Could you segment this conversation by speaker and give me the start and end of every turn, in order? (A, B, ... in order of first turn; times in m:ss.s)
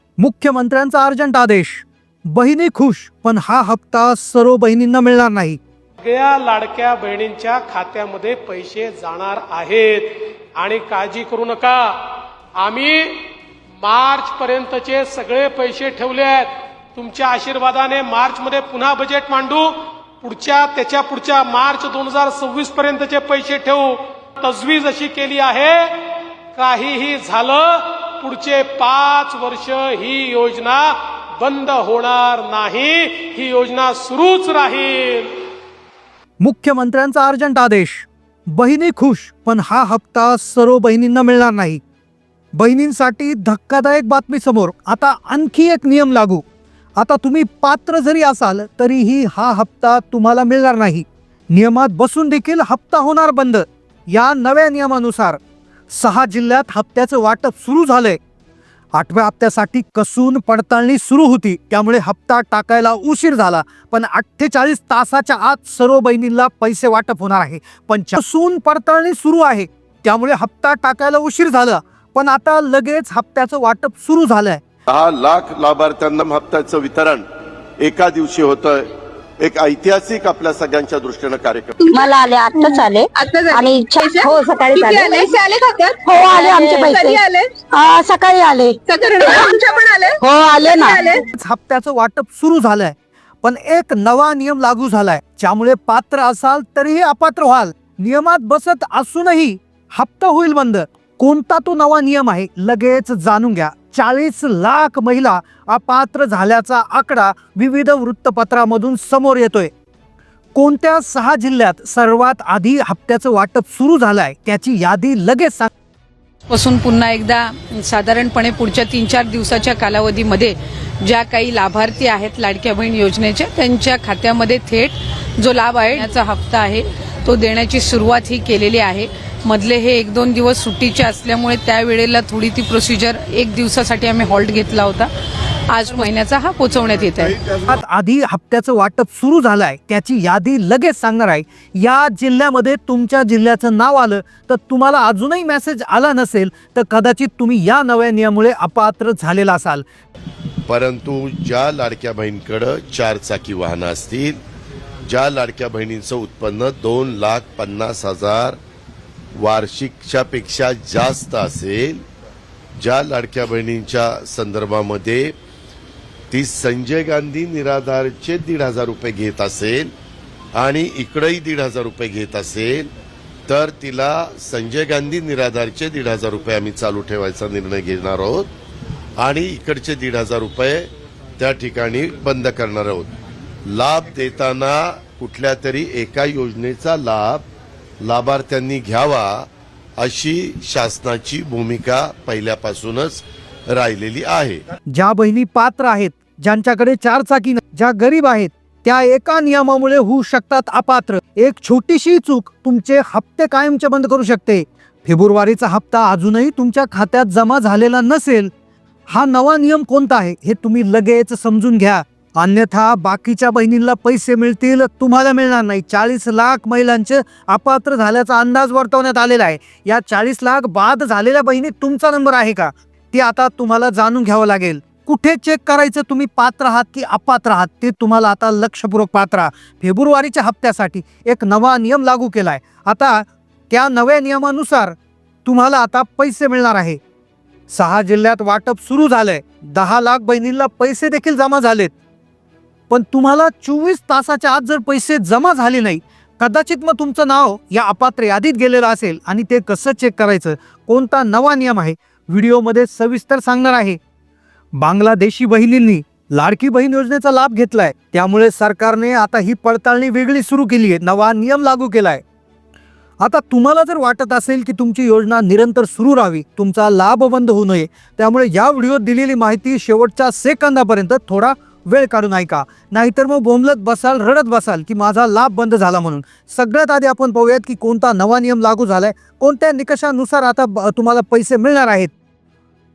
0:00.2-0:05.6 A
0:06.0-0:13.3 B
0:13.8-0:35.4 B
0:36.4-0:41.8 A
0:42.5-0:46.4 A
0:47.0-0:55.4 A
0:55.9-0:58.2 A
0:58.9-1:14.6 A
1:14.9-1:17.2 C
1:17.8-1:18.9 C
1:19.4-1:21.8 C
1:21.8-1:27.5 D
1:21.9-1:25.3 E
1:26.0-1:29.5 E
1:28.8-1:31.2 D
1:30.2-1:31.0 E
1:31.3-1:49.7 A
1:50.6-1:55.7 A
1:56.5-2:15.1 F
2:15.7-2:17.4 F
2:17.7-2:29.8 A
2:30.7-2:34.4 C
2:35.1-2:38.6 C
2:39.4-2:42.0 C
2:42.8-2:45.3 C
2:46.3-2:49.9 C
2:50.6-2:52.9 C
2:53.5-2:58.5 C
2:59.2-3:03.1 C
3:03.7-3:07.5 C
3:08.0-3:09.5 C
3:10.0-3:14.6 C
3:14.9-3:28.5 A
3:29.1-3:57.0 A
3:57.7-4:01.9 A
4:02.9-4:14.0 A
4:14.8-4:22.2 A
4:23.2-4:42.1 A